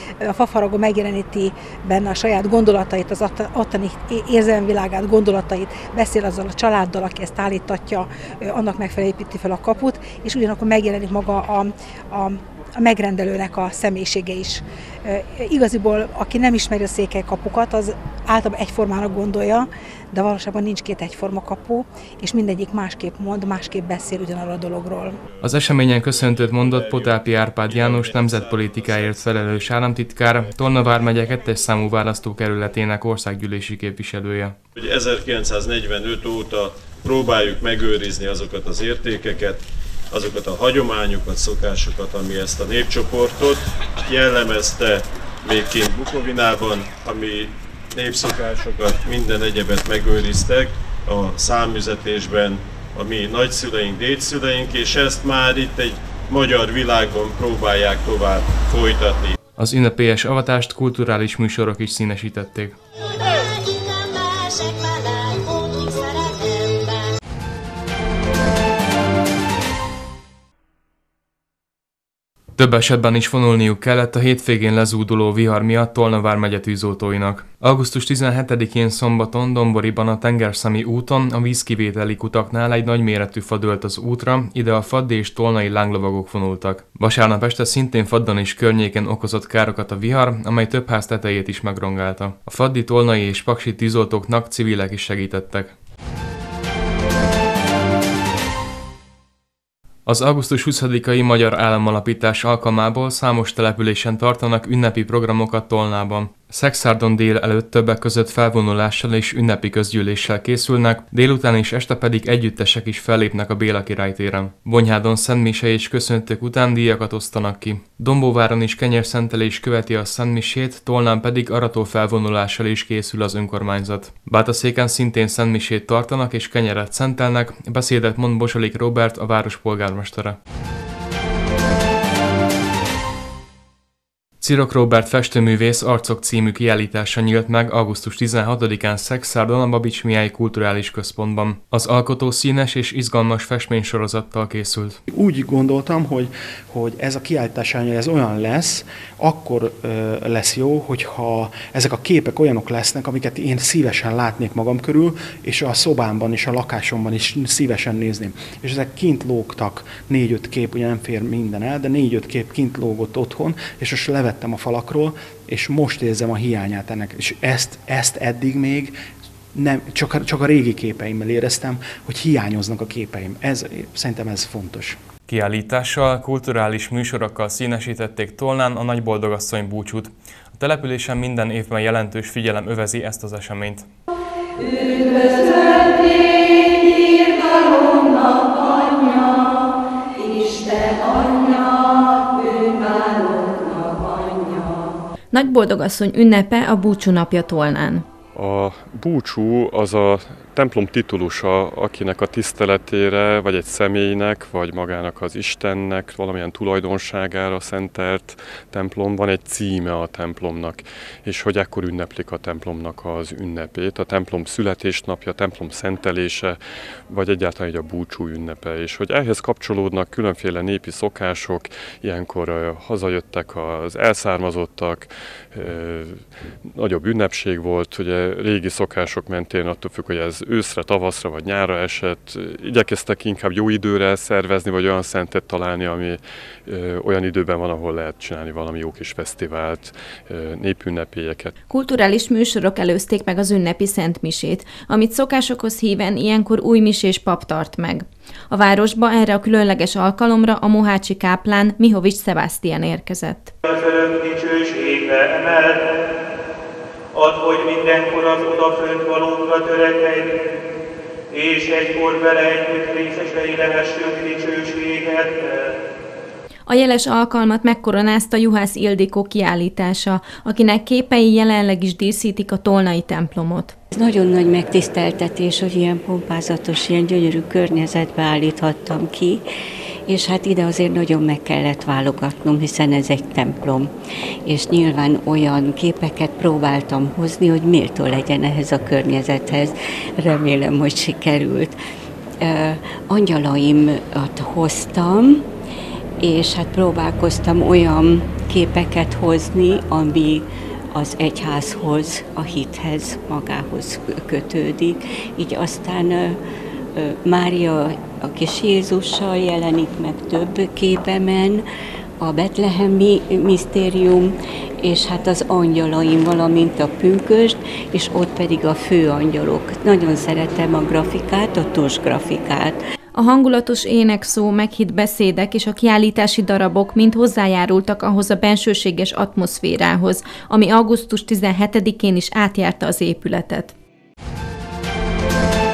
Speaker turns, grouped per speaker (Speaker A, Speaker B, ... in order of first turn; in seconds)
Speaker A: 0.2-25.2
Speaker B: 25.4-34.5, 59.6-62.8, 72.6-95.8, 100.0-130.4, 134.4-145.0, 175.3-183.9
Speaker C: 26.2-29.2, 34.8-59.4
Speaker D: 145.1-168.9, 169.5-175.0
Speaker E: 195.3-198.0, 241.7-253.5, 266.7-273.7, 323.1-333.7
Speaker F: 198.3-241.5
Speaker G: 253.6-255.8, 257.1-260.3, 261.3-265.8
Speaker H: 273.9-279.4, 280.1-283.9, 284.4-291.7, 292.4-295.4, 296.2-306.4, 306.9-311.6, 312.2-322.8